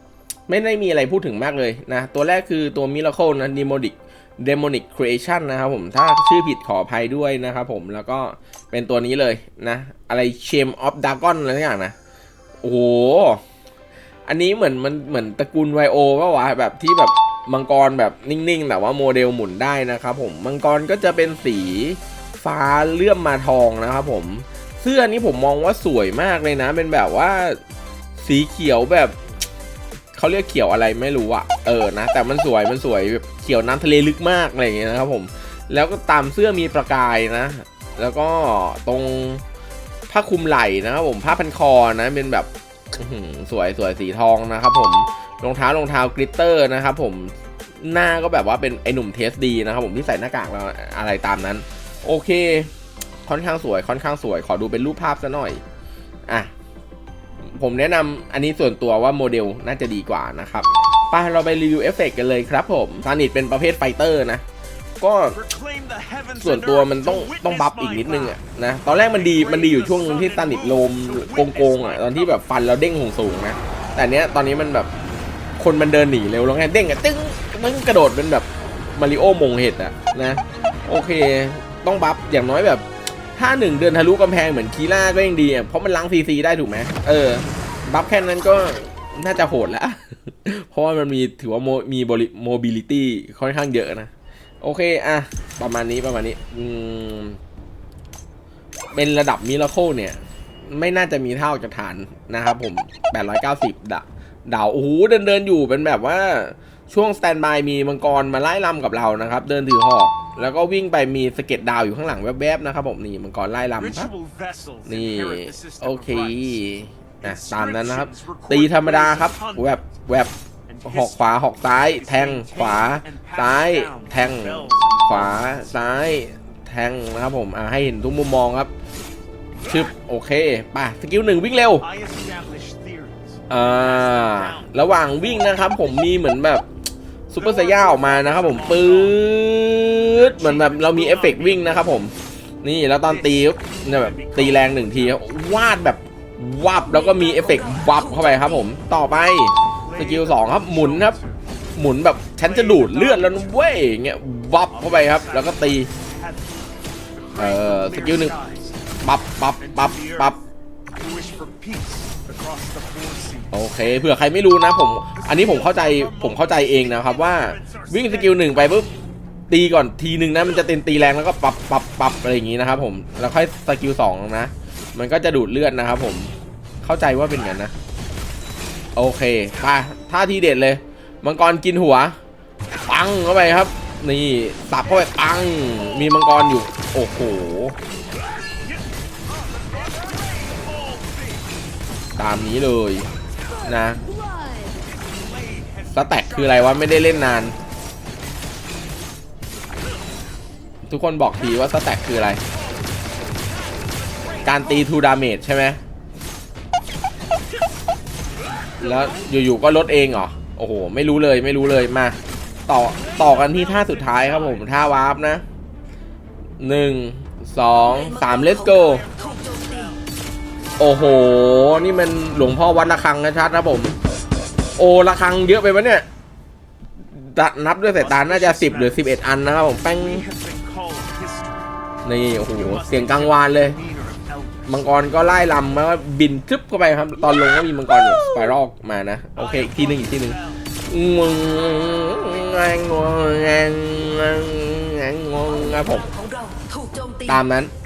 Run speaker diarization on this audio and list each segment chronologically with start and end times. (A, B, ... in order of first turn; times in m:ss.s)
0:00.5-0:11.9 A
0:12.6-0:13.4 A
0:14.3-0:27.6 A
0:28.2-0:29.2 A
0:30.1-0:39.4 A
0:40.1-0:52.7 A
0:53.2-0:55.6 A
0:57.5-1:04.4 A
1:05.0-1:05.4 A
1:05.3-1:12.5 B
1:06.4-1:14.9 A
1:15.6-1:37.4 A
1:38.9-1:54.1 A
1:53.8-1:56.7 B
1:54.9-2:00.3 A
1:57.2-1:59.8 B
2:00.7-2:06.1 B
2:00.8-2:08.7 A
2:09.6-2:09.9 B
2:09.7-2:11.8 A
2:11.7-2:16.1 B
2:13.5-2:16.6 A
2:17.3-2:31.2 A
2:17.4-2:19.2 B
2:19.9-2:22.0 B
2:23.0-2:25.7 B
2:26.8-2:28.7 C
2:29.8-2:31.4 B
2:31.8-2:35.9 A
2:32.4-2:33.8 B
2:34.7-2:38.8 B
2:37.4-2:38.3 A
2:39.0-2:40.4 A
2:39.6-2:40.4 B
2:41.0-2:44.1 B
2:43.5-2:48.9 A
2:45.1-2:48.8 B
2:49.5-2:57.7 A
2:59.0-3:02.2 A
3:02.9-3:07.8 A
3:04.8-3:06.1 B
3:08.4-3:11.6 B
3:12.2-3:13.1 A
3:13.3-3:13.6 B
3:13.6-3:14.0 A
3:13.8-3:14.9 C
3:14.8-3:17.6 B
3:15.9-3:17.5 A
3:19.8-3:20.2 B
3:20.9-3:22.4 A
3:22.3-3:25.0 B
3:24.4-3:25.8 A
3:28.6-3:29.3 B
3:28.8-3:35.4 A
3:32.9-3:34.8 B
3:36.6-3:39.0 A
3:37.8-3:40.0 C
3:38.8-3:40.0 B
3:40.8-3:43.9 A
3:40.9-3:41.7 B
3:44.8-3:46.0 A
3:47.1-3:50.2 A
3:48.0-3:51.8 B
3:52.0-3:53.8 A
3:52.5-3:55.1 B
3:54.7-4:00.4 A
3:59.4-4:00.6 B
4:00.9-4:06.1 A
4:01.5-4:02.5 B
4:05.4-4:07.4 C
4:07.2-4:07.7 A